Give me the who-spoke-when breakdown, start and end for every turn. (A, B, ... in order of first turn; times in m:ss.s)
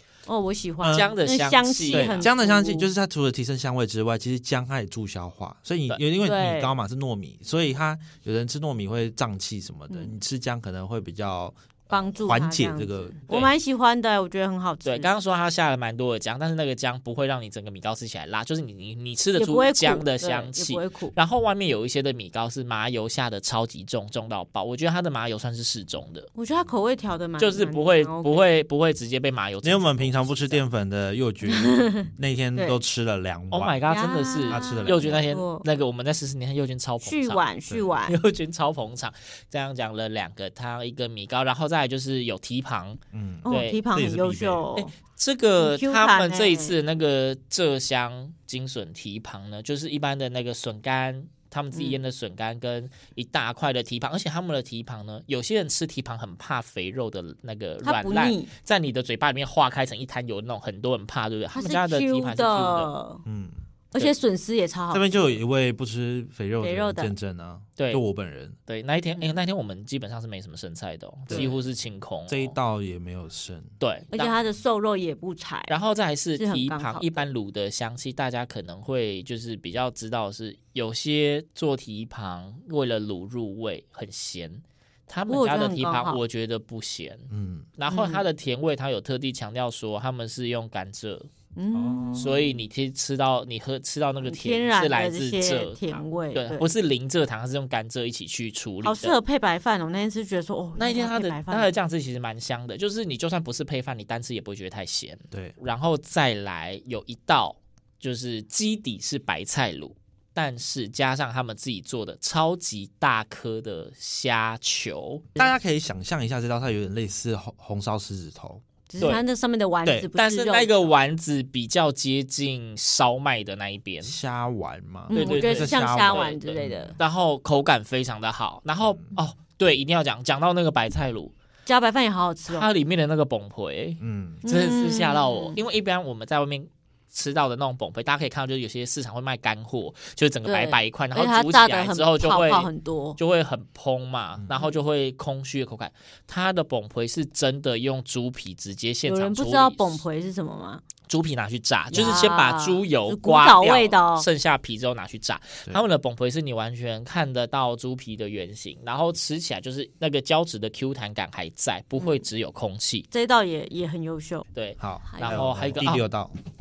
0:00.2-0:02.9 A
0:00.8-0:01.1 B
0:00.8-0:02.3 C
0:01.9-0:13.2 B
0:06.2-0:06.7 A
0:09.9-0:10.1 A
0:11.9-0:15.1 A
0:13.3-0:13.5 C
0:14.8-0:26.3 C
0:19.3-0:21.1 A
0:26.3-0:28.5 A
0:27.4-0:30.6 C
0:29.6-0:33.8 B
0:31.5-0:32.8 A
0:33.5-0:37.4 C
0:33.8-0:35.6 A
0:34.5-0:35.2 B
0:37.0-0:38.2 A
0:38.0-0:43.8 C
0:43.1-0:44.6 B
0:43.4-0:44.9 A
0:44.8-1:02.9 C
0:45.6-0:46.7 A
0:51.7-0:52.0 A
0:57.8-0:58.5 A
1:01.5-1:03.2 A
1:03.2-1:03.6 B
1:03.9-1:05.4 A
1:04.9-1:08.6 B
1:06.6-1:07.1 A
1:07.8-1:08.0 C
1:08.7-1:12.6 C
1:11.3-1:11.5 B
1:11.3-1:11.6 A
1:12.3-1:13.7 B
1:13.8-1:14.3 C
1:14.1-1:15.7 A
1:15.7-1:31.3 C
1:16.4-1:17.2 A
1:25.3-1:26.2 A
1:27.3-1:27.7 B
1:27.9-1:28.2 A
1:31.6-1:32.5 A
1:31.7-1:32.4 B
1:32.2-1:39.2 C
1:34.2-1:36.7 A
1:38.8-1:41.7 A
1:40.8-1:55.3 C
1:55.4-1:58.6 B
1:58.9-2:00.9 A
2:00.1-2:04.1 C
2:04.0-2:07.0 B
2:05.1-2:07.0 A
2:05.1-2:11.3 C
2:08.8-2:09.2 B
2:11.6-2:12.7 A
2:12.4-2:30.0 C
2:14.0-2:14.4 B
2:14.4-2:15.6 A
2:20.4-2:23.2 A
2:29.0-2:30.8 A
2:31.1-2:43.1 C
2:31.9-2:34.3 A
2:42.0-2:42.2 A
2:43.1-2:44.5 A
2:44.5-2:46.0 C
2:44.8-2:46.4 B
2:45.0-2:45.4 A